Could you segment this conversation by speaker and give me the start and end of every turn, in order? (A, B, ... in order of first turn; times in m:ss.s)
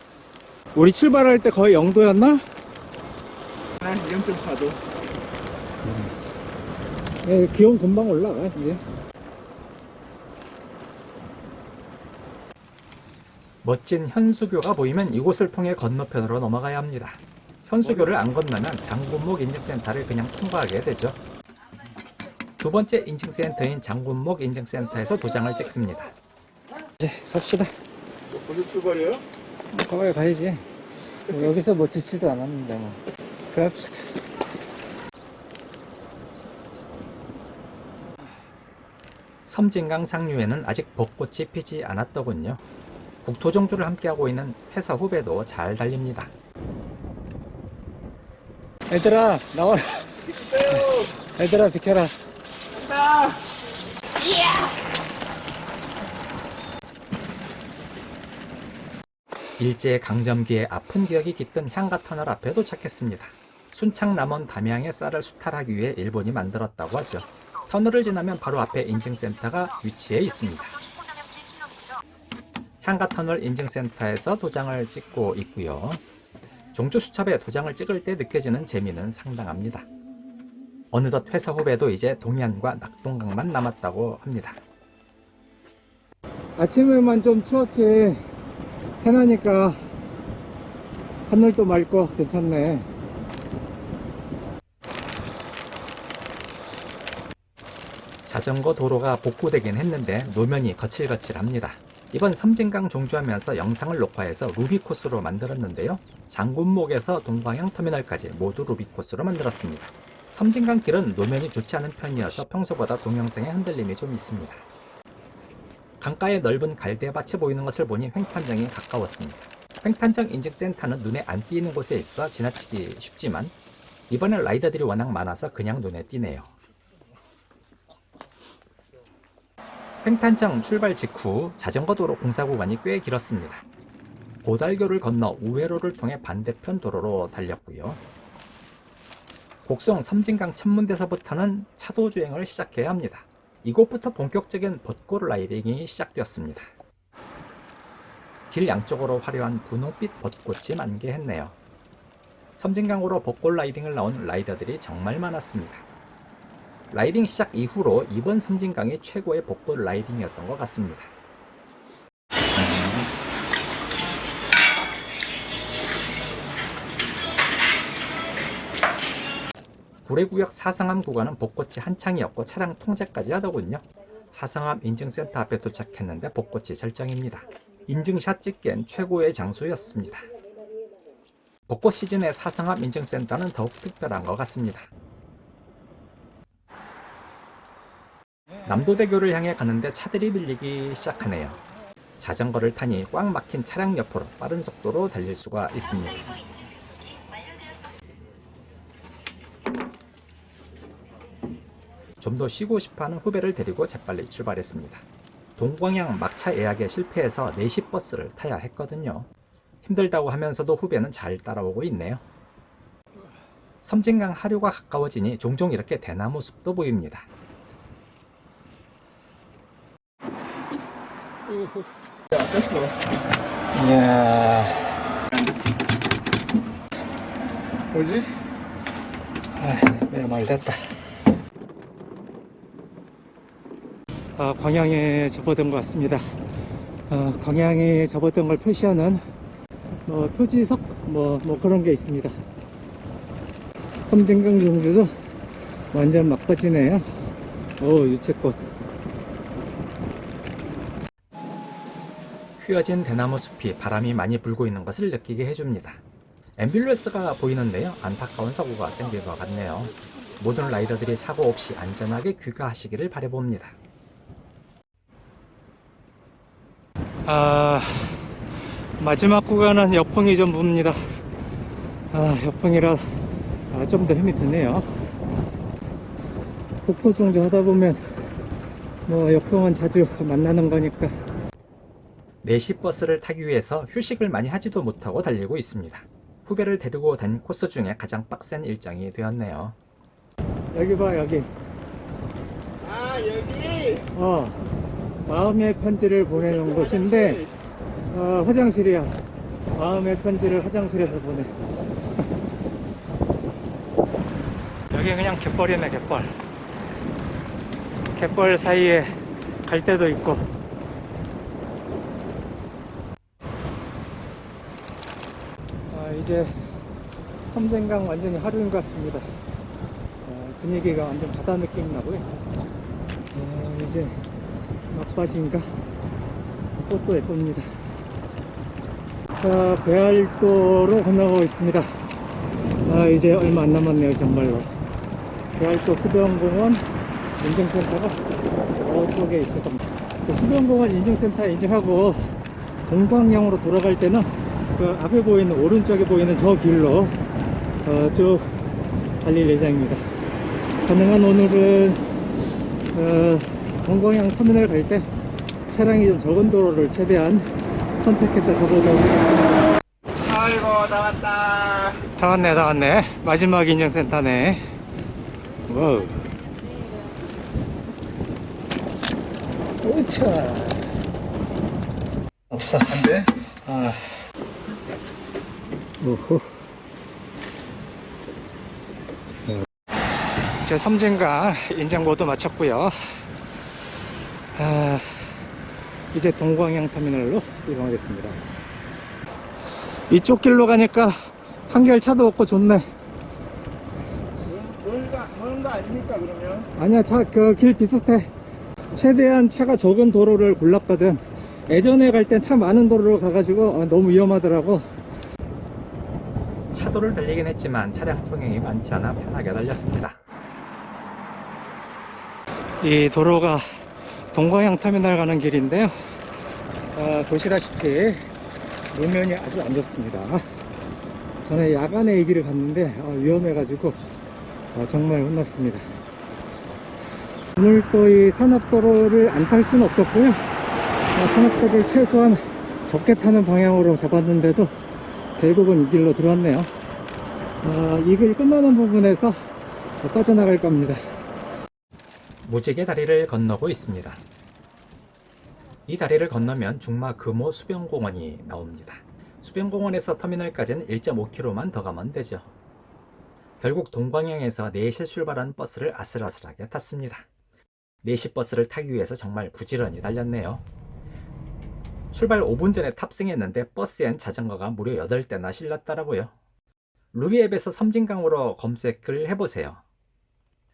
0:00.8-0:02.4 A
0:03.8-0:04.7 A
0:04.0-0:04.7 B
0:05.8-0:06.2 A
0:07.2-0:08.8 A
0:13.6-0:21.2 C
0:17.8-0:18.2 A
0:22.6-0:26.1 C
0:27.0-0:27.7 A
0:28.4-0:29.2 B
0:29.7-0:30.7 A
0:31.3-0:34.2 A
0:39.4-0:42.6 C
0:43.2-0:46.3 C
0:48.9-0:52.2 A
0:59.6-1:10.9 C
1:12.8-1:16.0 C
1:16.7-1:19.9 C
1:20.9-1:24.6 C
1:26.6-1:28.2 A
1:29.0-1:29.8 A
1:31.3-1:32.9 A
1:38.3-1:54.6 C
1:56.0-2:03.5 C
2:04.1-2:06.6 C
2:10.0-2:13.6 C
2:14.4-2:18.0 C
2:19.6-2:26.7 C
2:28.5-2:31.6 C
2:32.6-2:35.9 C
2:36.9-2:41.1 C
2:42.6-2:43.0 C
2:50.1-3:00.3 C
3:01.7-3:04.9 C
3:08.6-3:11.6 C
3:12.2-3:16.4 C
3:22.2-3:25.0 C
3:25.6-3:29.3 C
3:29.8-3:32.2 C
3:33.8-3:37.3 C
3:43.7-3:45.0 A
3:47.9-3:48.3 A
3:49.6-3:50.8 A
3:54.4-3:56.2 A
3:57.1-3:59.2 A
4:00.1-4:02.4 A
4:04.0-4:05.1 A
4:05.9-4:07.1 A
4:07.8-4:08.7 A
4:12.6-4:16.0 C
4:16.6-4:23.8 C
4:27.3-4:28.2 A
4:29.0-4:31.1 A
4:32.1-4:33.0 A
4:33.7-4:34.9 A
4:36.8-4:38.2 A
4:39.1-4:41.2 A
4:42.4-4:49.8 C
4:50.7-4:51.5 A
4:53.1-4:53.9 B
4:53.9-4:54.6 A
4:55.3-4:57.5 A
4:58.1-4:59.2 A
4:59.8-5:01.6 A
5:04.9-5:06.3 A
5:08.1-5:10.4 A
5:15.9-5:16.5 A
5:17.4-5:19.2 A
5:20.2-5:22.3 A
5:23.3-5:24.2 A
5:24.9-5:25.7 A
5:26.9-5:27.7 A
5:29.4-5:31.9 A
5:32.8-5:34.7 A
5:35.6-5:36.8 A
5:37.4-5:38.2 A
5:38.8-5:42.4 A
5:42.9-5:47.2 A
5:47.8-5:48.6 A
5:49.2-5:50.0 A
5:50.8-5:52.0 A
5:52.9-5:55.1 A
5:55.7-5:59.7 A
6:01.9-6:04.7 A
6:05.7-6:06.4 A
6:09.8-6:10.9 A
6:12.5-6:14.1 A
6:16.0-6:16.5 A
6:20.6-6:23.2 A
6:24.6-6:25.4 A
6:26.1-6:28.4 A
6:30.1-6:32.9 A
6:34.6-6:35.5 A
6:35.5-6:36.6 B
6:36.6-6:38.3 A
6:38.9-6:44.9 A
6:46.7-6:50.2 C
6:52.8-6:53.7 A
6:54.3-6:56.0 A
6:56.9-6:58.3 A
6:58.9-7:00.4 A
7:01.4-7:04.0 A
7:04.7-7:05.8 A
7:07.6-7:10.4 A
7:11.1-7:14.7 A
7:15.4-7:16.7 A
7:17.6-7:19.4 A
7:20.0-7:21.0 A
7:22.4-7:24.2 C
7:25.9-7:32.5 C
7:33.6-7:37.3 C
7:38.0-7:40.6 C
7:42.1-7:46.3 C
7:47.1-7:49.8 C